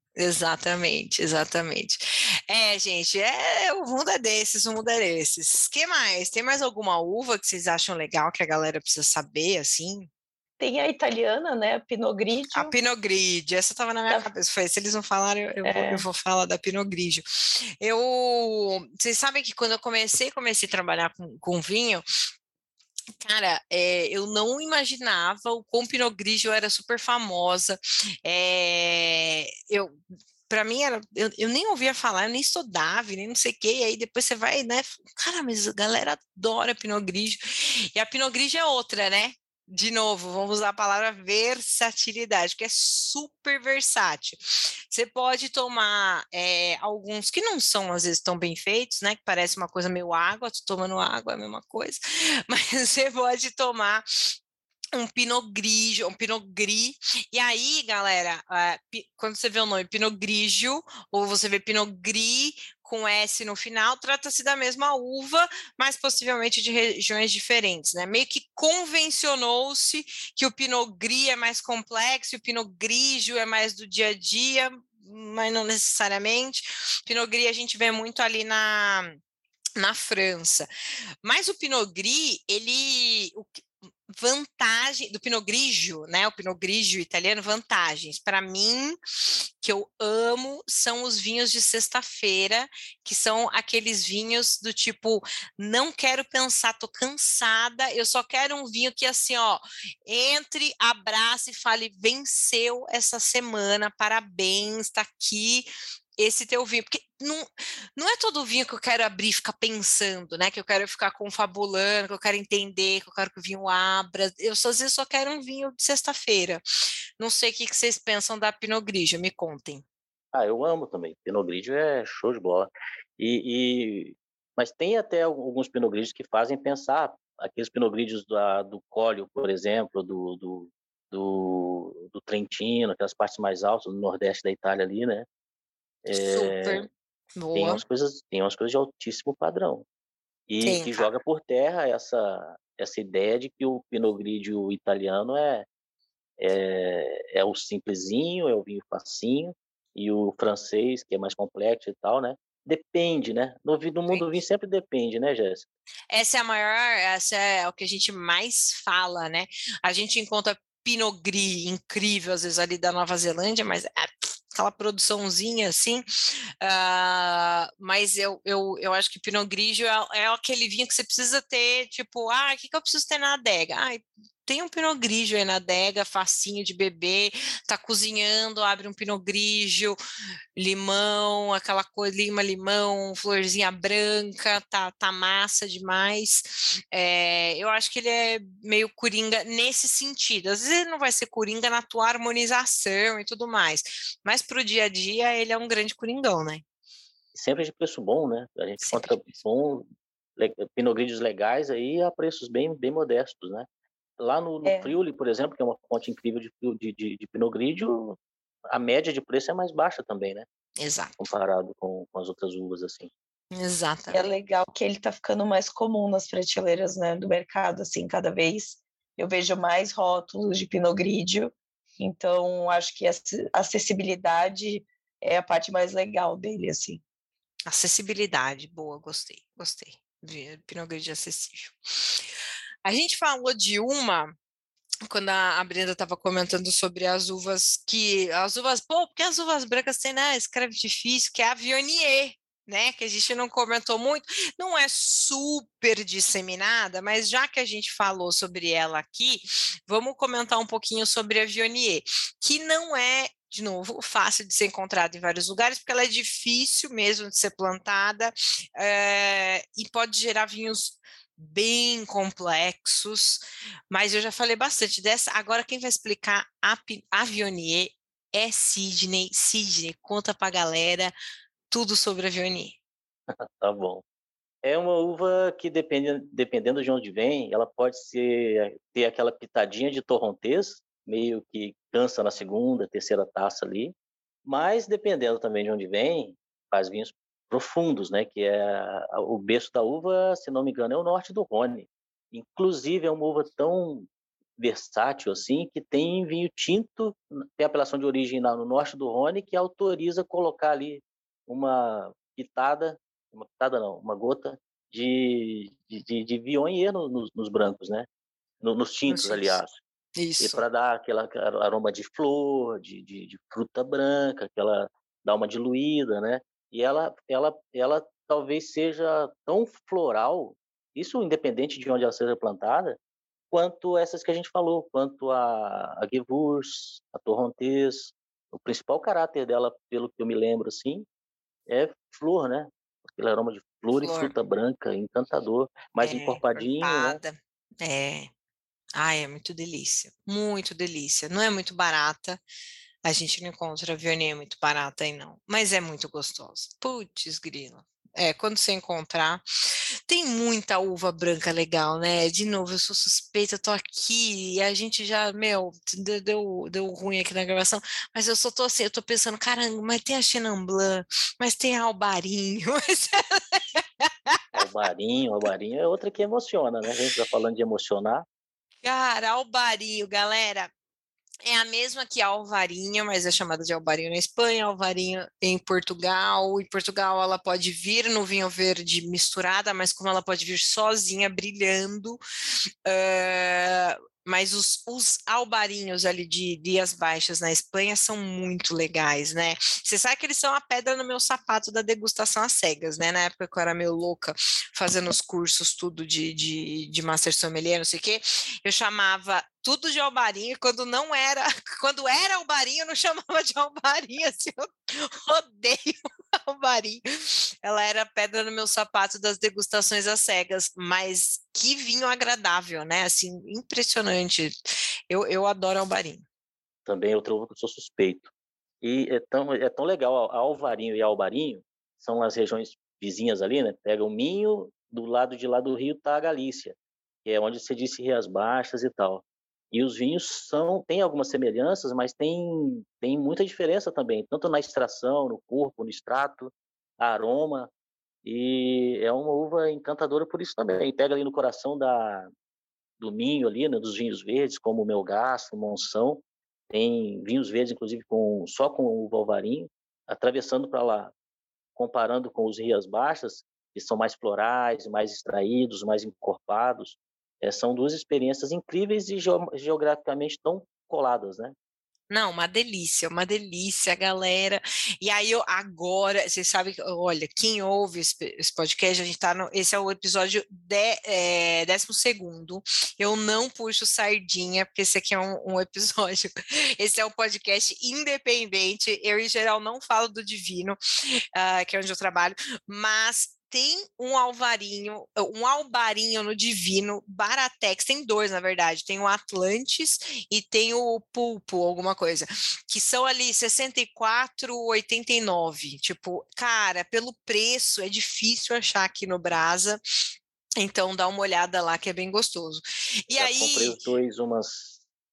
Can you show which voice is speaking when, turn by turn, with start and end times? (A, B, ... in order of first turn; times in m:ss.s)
0:00.2-0:10.1 A
0:10.6-0:12.7 B
0:12.5-0:22.0 A
0:15.6-0:16.1 B
0:23.2-0:54.3 A
0:54.9-1:19.2 A
1:19.8-1:20.7 A
1:21.2-1:56.6 A
1:57.2-1:59.8 A
2:00.3-2:15.3 C
2:16.0-2:16.9 C
2:16.1-2:17.8 A
2:17.5-2:19.8 C
2:20.5-2:25.7 C
2:20.6-2:21.1 A
2:26.4-2:35.6 C
2:34.1-2:34.4 A
2:36.1-2:46.0 A
2:46.6-3:00.0 A
3:00.6-3:16.6 A
3:17.3-3:19.8 C
3:18.8-3:19.4 A
3:20.4-3:23.7 C
3:24.2-3:28.2 C
3:24.6-3:24.9 B
3:28.7-3:30.5 C
3:30.8-3:31.2 A
3:31.2-3:33.1 C
3:33.5-3:34.3 A
3:34.1-3:47.0 B
3:47.7-3:52.2 A
3:52.8-3:54.3 A
3:55.1-4:31.1 A
4:31.7-4:32.8 A
4:33.6-4:34.0 C
4:34.6-4:43.9 C
4:44.4-5:08.1 C
5:08.6-5:09.8 C
5:09.1-5:09.6 A
5:10.2-5:10.6 A
5:10.4-5:23.0 C
5:23.5-5:31.0 C
5:31.7-5:37.2 C
5:34.0-5:34.3 A
5:36.0-5:38.3 A
5:39.0-5:42.4 A
5:43.0-5:49.4 A
5:50.1-6:04.4 A
6:04.5-6:08.2 C
6:08.8-6:10.7 A
6:11.4-6:22.2 A
6:22.8-6:54.6 A
6:55.1-6:56.2 A
6:56.8-6:58.3 C
6:58.8-7:17.7 C
7:18.2-7:22.3 C
7:23.0-7:31.1 C
7:31.8-7:41.5 C
7:42.1-8:00.8 A
8:01.3-8:20.1 A
8:20.6-8:24.0 A
8:23.2-8:24.8 C